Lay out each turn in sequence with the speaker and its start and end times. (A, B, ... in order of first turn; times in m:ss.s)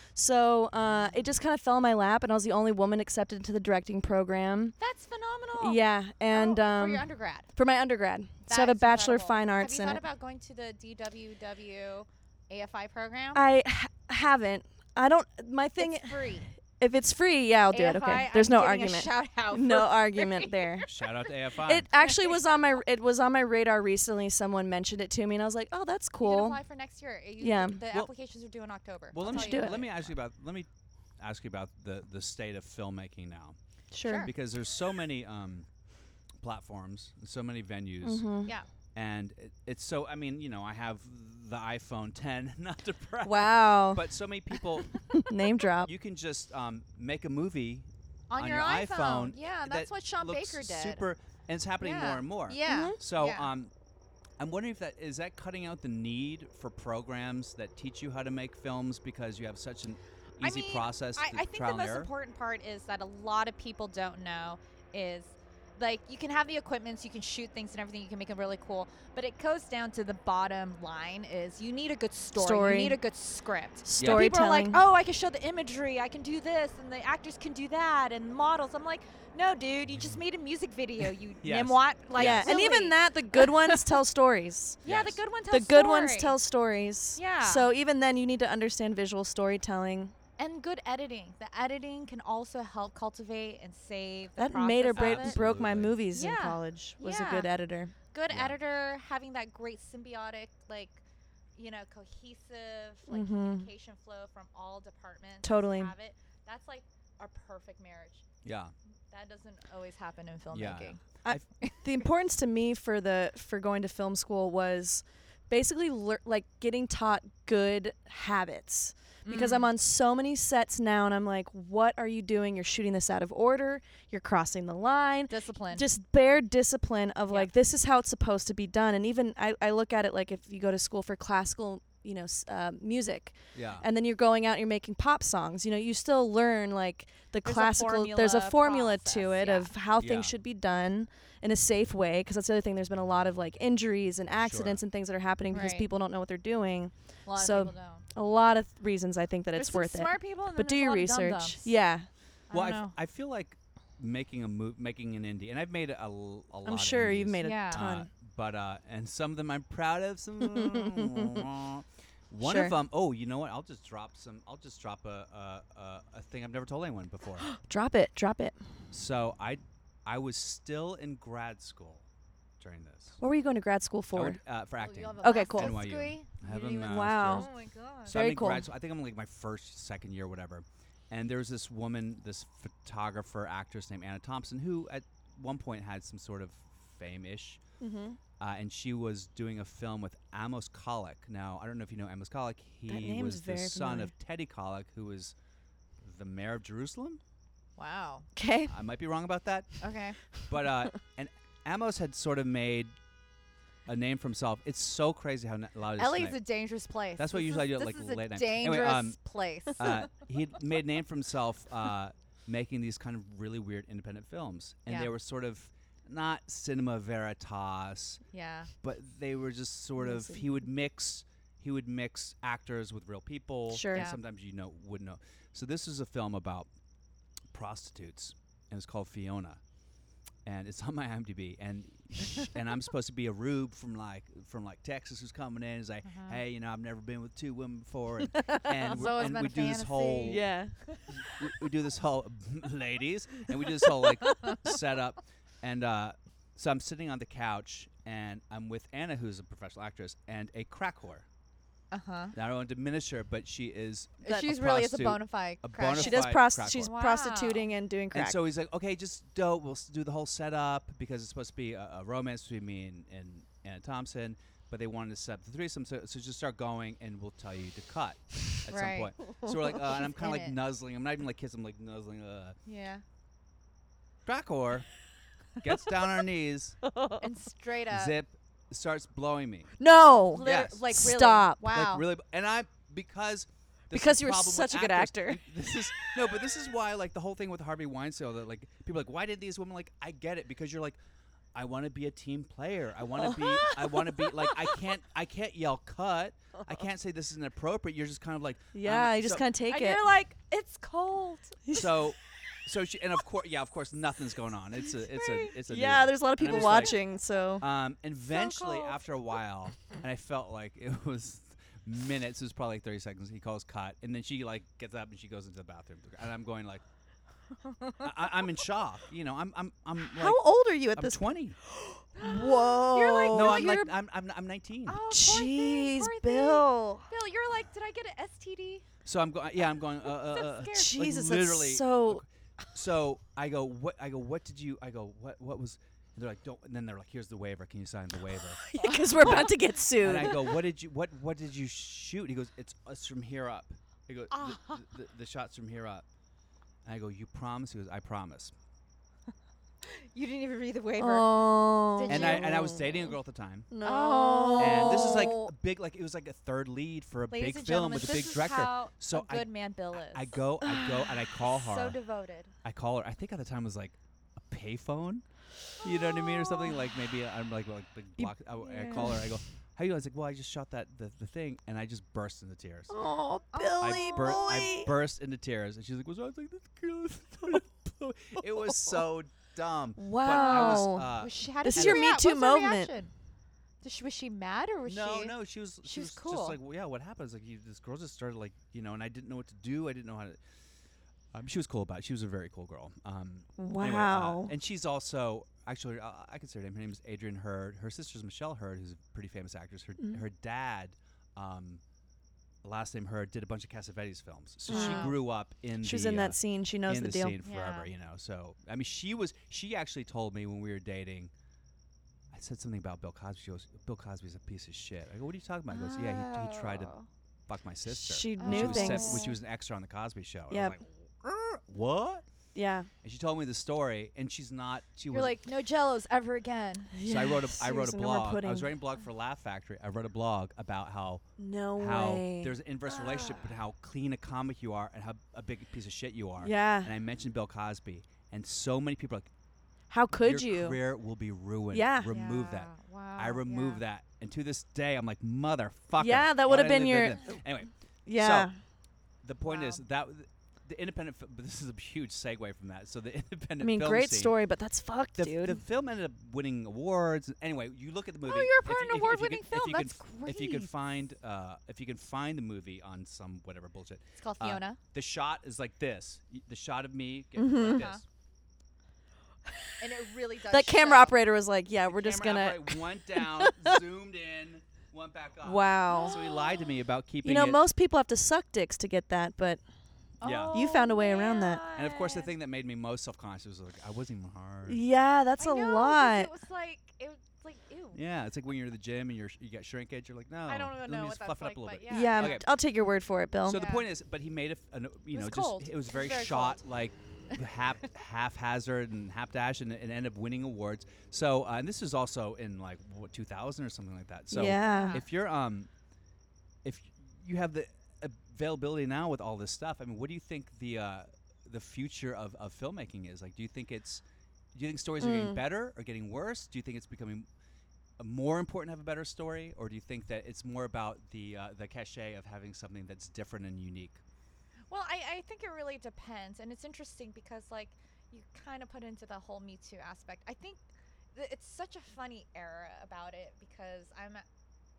0:00.2-0:04.8 A
0:04.8-0:07.5 B
0:05.6-0:10.0 A
0:08.5-0:13.4 B
0:13.3-0:20.9 A
0:15.8-0:16.5 B
0:17.7-0:21.3 B
0:20.9-0:21.9 C
0:21.6-0:26.6 A
0:22.0-0:22.6 B
0:26.2-0:30.0 B
0:27.4-0:27.8 A
0:29.1-0:30.7 C
0:29.2-0:29.8 A
0:31.2-0:33.6 C
0:33.9-0:34.3 A
0:34.0-0:34.3 B
0:34.2-0:35.7 C
0:36.4-0:38.2 C
0:38.0-0:38.5 A
0:38.9-0:45.0 C
0:43.2-0:44.0 A
0:45.2-0:45.9 A
0:45.8-0:53.7 C
0:48.3-0:51.0 B
0:51.8-0:53.5 B
0:52.7-0:53.0 A
0:54.4-1:02.1 C
1:00.4-1:23.8 B
1:12.4-1:13.0 A
1:13.9-1:14.8 A
1:14.0-1:14.2 C
1:21.0-1:22.5 C
1:22.2-1:24.8 A
1:24.8-1:26.4 B
1:24.8-1:25.2 C
1:25.5-1:30.1 A
1:27.2-1:27.7 B
1:30.4-1:35.4 B
1:34.4-1:37.9 A
1:35.0-1:36.0 C
1:36.1-1:37.5 B
1:38.1-1:41.0 B
1:38.3-1:38.6 C
1:41.6-1:48.2 B
1:43.1-1:43.7 A
1:45.4-1:45.9 A
1:48.4-1:48.7 C
1:49.1-1:51.0 B
1:50.5-1:51.4 C
1:51.2-2:32.1 A
1:59.2-1:59.7 B
2:05.3-2:05.9 B
2:13.5-2:13.9 C
2:17.4-2:19.7 B
2:20.0-2:20.4 C
2:24.4-2:24.8 C
2:25.5-2:25.9 B
2:27.3-2:28.1 B
2:29.6-2:31.7 B
2:32.5-2:32.9 B
2:32.5-2:47.5 C
2:36.6-2:38.1 A
2:37.4-2:37.8 B
2:40.4-2:41.4 A
2:42.4-2:42.8 A
2:47.4-2:48.6 A
2:48.9-2:52.1 C
2:52.6-2:53.2 C
2:53.2-2:54.4 A
2:54.1-2:57.5 C
2:54.8-2:58.2 B
2:55.2-2:55.8 A
2:56.5-2:57.5 A
2:58.0-3:07.6 C
2:58.1-2:58.7 A
3:07.8-3:08.2 A
3:08.4-3:15.3 C
3:12.9-3:14.1 A
3:16.0-3:17.2 C
3:17.8-3:18.3 B
3:18.4-3:18.8 A
3:18.7-3:19.8 C
3:19.8-3:20.2 B
3:20.3-3:22.9 C
3:23.9-3:26.4 C
3:26.0-3:30.1 B
3:27.2-3:29.2 C
3:29.8-3:38.2 C
3:34.9-3:35.1 B
3:38.3-3:38.7 B
3:38.8-3:46.7 C
3:40.0-3:40.4 A
3:43.7-3:44.1 A
3:43.9-3:44.2 B
3:47.5-3:49.6 C
3:50.4-4:00.5 C
3:56.1-3:56.4 B
3:58.3-3:59.1 A
3:58.8-4:01.2 B
4:00.3-4:00.8 A
4:01.2-4:11.3 C
4:11.9-4:12.3 B
4:12.3-4:16.9 C
4:14.2-4:17.7 B
4:15.9-4:18.4 A
4:18.1-4:32.6 C
4:28.7-4:29.2 B
4:29.8-4:30.6 B
4:32.7-4:33.0 B
4:34.2-4:34.9 C
4:35.6-4:36.8 C
4:36.8-4:37.3 A
4:37.2-4:38.2 B
4:37.9-4:39.7 C
4:39.8-4:41.7 A
4:40.3-4:42.1 B
4:40.4-4:40.9 C
4:41.7-4:51.0 C
4:43.9-4:45.4 A
4:51.5-4:59.4 C
4:53.2-4:54.8 A
4:58.7-5:00.0 A
4:59.7-5:01.8 B
5:01.7-5:07.0 C
5:05.2-5:05.5 B
5:05.7-5:07.6 A
5:06.5-5:06.9 B
5:07.6-5:16.8 C
5:08.3-5:09.2 B
5:17.6-5:18.0 B
5:18.0-5:20.4 C
5:20.0-5:23.9 A
5:20.9-5:21.6 C
5:22.2-5:23.9 B
5:23.3-5:25.0 C
5:24.9-5:28.8 B
5:25.1-5:27.1 A
5:29.0-5:38.6 C
5:30.1-5:31.0 B
5:30.7-5:32.2 A
5:38.6-5:40.5 A
5:38.8-5:39.5 B
5:39.2-5:46.0 C
5:44.3-5:44.8 B
5:46.8-5:48.5 C
5:49.8-5:52.9 B
5:51.0-5:52.9 A
5:52.1-5:53.7 C
5:53.7-5:55.5 A
5:53.8-5:55.4 B
5:54.6-6:02.0 C
5:57.3-6:00.3 B
6:00.6-6:01.1 A
6:01.4-6:02.5 B
6:02.6-6:05.2 C
6:05.8-6:12.9 C
6:05.8-6:06.7 B
6:08.2-6:09.3 A
6:08.8-6:09.2 B
6:12.9-6:14.9 A
6:13.5-6:14.5 B
6:13.8-6:22.1 C
6:18.6-6:19.0 A
6:20.0-6:22.9 A
6:20.3-6:23.1 B
6:23.8-6:26.6 B
6:24.9-6:30.4 C
6:31.3-6:41.8 C
6:33.6-6:34.5 A
6:42.6-6:51.3 C
6:44.7-6:45.2 A
6:44.7-6:45.2 B
6:45.8-6:47.4 A
6:47.4-6:47.9 B
6:52.3-6:56.9 C
6:55.7-6:57.1 B
6:57.5-7:02.2 C
6:57.9-6:59.3 A
6:58.4-6:59.3 B
7:00.5-7:00.8 A
7:02.6-7:02.9 A
7:03.0-7:05.4 C
7:05.1-7:06.9 B
7:06.9-7:08.7 A
7:07.0-7:11.2 C
7:11.4-7:12.6 A
7:11.8-7:19.3 C
7:13.1-7:13.4 B
7:16.4-7:16.9 A
7:19.9-7:20.8 A
7:20.1-7:28.5 C
7:21.7-7:22.2 A
7:22.1-7:23.8 B
7:26.0-7:27.4 A
7:28.1-7:28.6 A
7:29.2-7:34.4 C
7:29.4-7:29.8 B
7:33.6-7:35.6 A
7:35.2-7:48.0 C
7:38.2-7:40.7 B
7:44.2-7:44.8 B
7:47.4-7:47.9 A
7:47.6-7:48.0 B
7:49.8-7:51.2 B
7:50.5-7:53.8 A
7:51.9-7:57.6 C
7:55.4-7:56.2 A
7:55.9-7:56.6 B
7:57.2-7:59.6 A
8:00.2-8:02.3 B
8:00.2-8:00.7 C
8:00.5-8:01.6 A
8:01.7-8:04.8 C
8:04.7-8:06.3 A
8:05.4-8:08.0 B
8:07.9-8:12.4 C
8:10.5-8:12.4 B
8:11.9-8:13.6 A
8:13.5-8:25.7 C
8:13.5-8:13.9 B
8:15.1-8:16.6 B
8:24.3-8:25.0 A
8:24.5-8:25.1 B
8:26.6-8:34.0 C
8:34.6-8:37.3 C
8:35.0-8:35.4 A
8:38.0-8:44.0 C
8:44.7-8:50.6 B
8:51.2-8:54.2 B